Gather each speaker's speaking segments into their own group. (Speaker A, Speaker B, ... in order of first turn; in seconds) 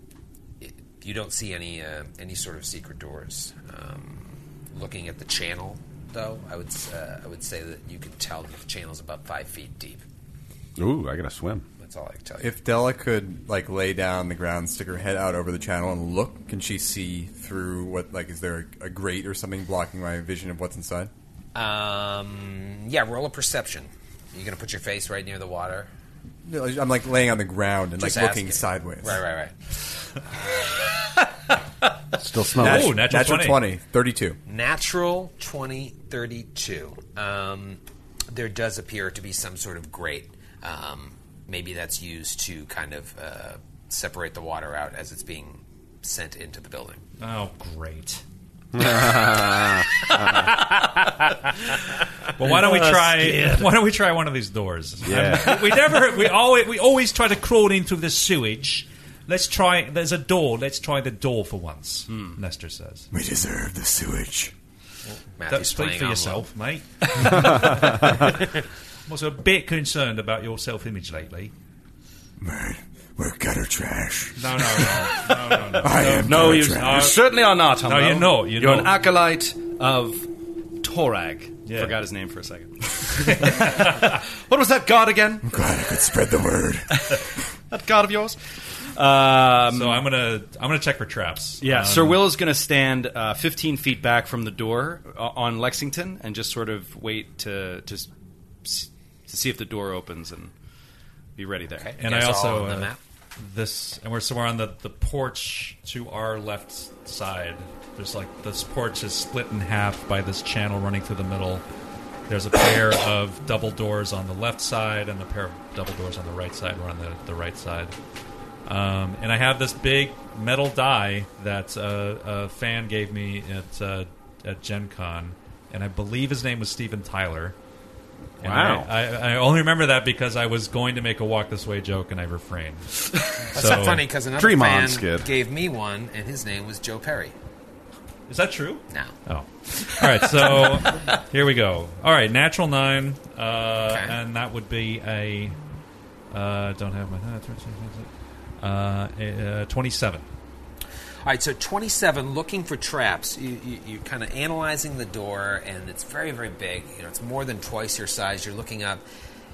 Speaker A: 0.6-10.0, 11.8-12.5, 21.5-25.9, 28.0-29.5, 30.3-30.9, 34.5-47.0, 65.4-66.5, 101.8-103.0, 133.5-137.3, 143.9-144.1, 151.2-159.0
Speaker B: 10.8-11.6, 32.2-33.0, 48.7-49.9, 55.0-55.7, 128.4-128.9, 134.3-135.3
Speaker C: 12.4-21.1, 26.4-29.2, 32.6-34.4, 63.1-64.5, 72.4-75.1, 75.7-77.0, 85.5-86.9
Speaker D: 32.6-33.6, 47.2-48.2, 52.4-63.1, 65.0-68.3, 69.1-71.5, 74.3-78.9, 81.7-81.9, 89.7-92.2, 102.0-111.6, 112.3-117.9, 118.7-127.5, 128.4-134.0, 138.3-145.6, 146.3-148.1, 148.6-150.2
Speaker E: 52.4-53.7, 62.1-62.4, 76.2-80.3, 80.8-85.5, 86.9-88.4, 88.9-90.0, 91.6-98.1, 98.6-100.5, 101.3-101.9